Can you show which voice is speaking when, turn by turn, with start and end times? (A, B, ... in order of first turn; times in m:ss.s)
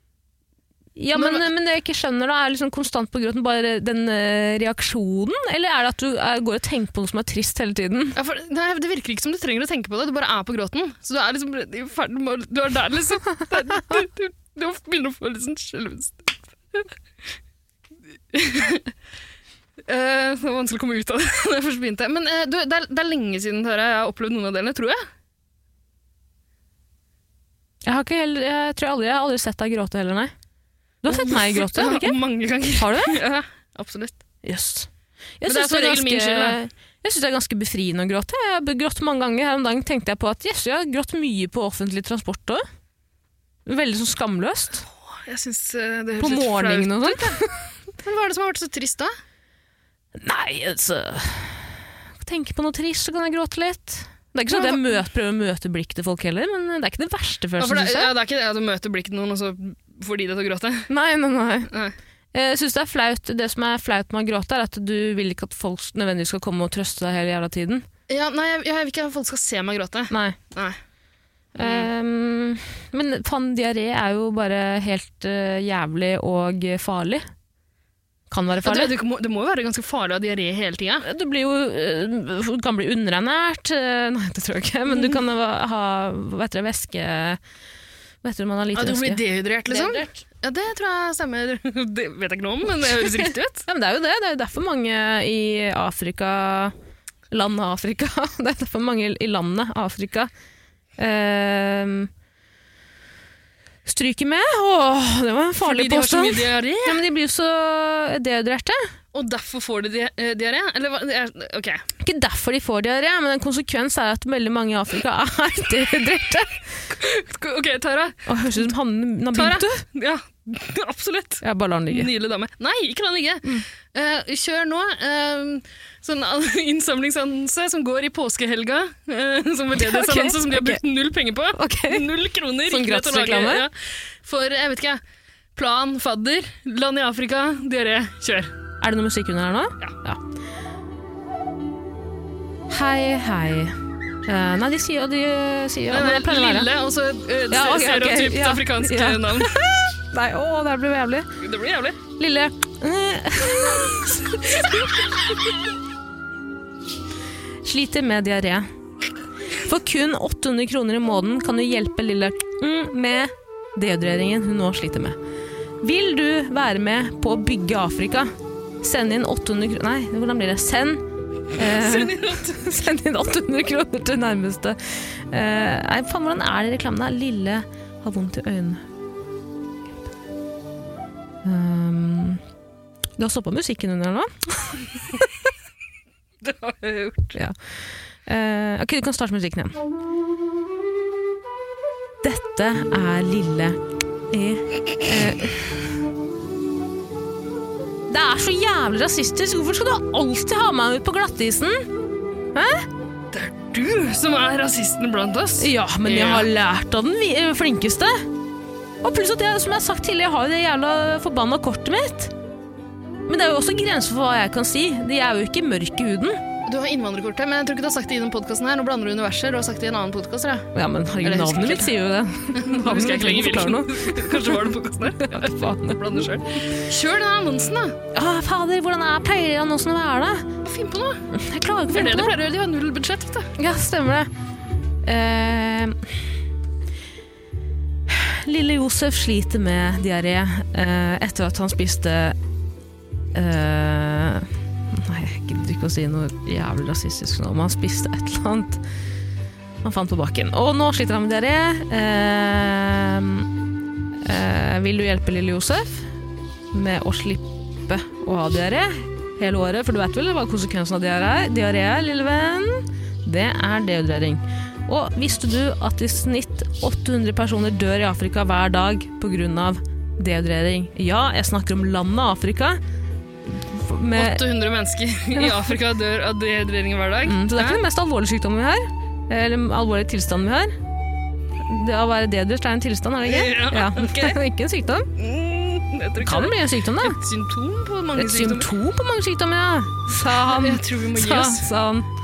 0:01.0-0:08.2 A
0:01.2-0:01.4 B
0:08.2-0:16.9 B
0:18.3-0:18.9 B
0:19.9-0:25.0 B
0:27.8-0:30.3 A
0:31.0-0:32.2 A
0:31.1-0:34.2 B
0:32.8-0:33.2 A
0:34.4-0:34.9 A
0:35.4-0:42.6 A
0:35.5-0:36.6 B
0:43.7-0:44.8 A
0:44.8-0:49.1 B
0:46.2-0:47.5 A
0:50.2-0:58.1 A
0:54.5-0:55.0 B
0:57.6-1:00.9 B
1:00.9-1:01.7 A
1:01.7-1:02.0 B
1:02.3-1:07.8 A
1:08.1-1:10.8 B
1:10.1-1:10.4 A
1:11.6-1:11.9 B
1:11.6-1:17.2 A
1:18.3-1:18.9 A
1:18.6-1:21.1 B
1:21.0-1:27.4 A
1:28.2-1:30.2 A
1:28.7-1:33.7 B
1:33.0-1:36.7 A
1:37.3-1:40.3 A
1:41.0-1:42.1 A
1:43.9-1:48.9 A
1:45.6-1:47.0 B
1:49.1-1:51.9 B
1:52.0-1:56.6 A
1:56.9-1:58.6 B
1:58.3-1:59.8 A
1:59.3-2:15.0 B
2:01.4-2:02.1 A
2:09.8-2:10.8 A
2:11.5-2:12.1 A
2:12.6-2:13.7 A
2:15.6-2:18.5 B
2:18.8-2:20.2 A
2:22.7-2:26.7 A
2:25.9-2:29.6 B
2:27.5-2:31.3 A
2:31.4-2:32.0 B
2:32.2-2:35.1 A
2:37.6-2:38.7 A
2:39.6-2:45.2 A
2:45.8-2:48.3 A
2:48.8-2:58.8 A
2:51.5-2:52.6 B
3:01.4-3:02.4 A
3:03.2-3:05.3 A
3:06.4-3:07.4 B
3:08.2-3:09.8 A
3:12.2-3:15.7 A
3:18.1-3:21.9 A
3:22.5-3:22.9 A
3:23.3-3:26.5 B
3:25.6-3:28.3 A
3:29.0-3:32.3 A
3:33.3-3:36.4 A
3:36.7-3:41.9 B
3:40.7-3:46.3 A
3:42.5-3:48.0 B
3:48.1-3:50.5 A
3:50.6-3:51.3 B
3:51.3-3:52.3 A
3:51.9-3:53.5 B
3:53.6-3:54.3 A
3:55.0-3:56.3 A
3:58.1-4:02.4 A
4:03.3-4:08.8 A
4:09.8-4:13.5 A
4:14.2-4:16.2 A
4:16.7-4:32.8 A
4:33.5-4:34.4 A
4:34.2-4:37.8 B
4:37.2-4:40.8 A
4:41.6-4:45.1 A
4:43.2-4:44.4 B
4:45.2-4:48.7 B
4:46.2-4:47.2 A
4:48.2-4:52.1 A
4:50.5-4:51.7 B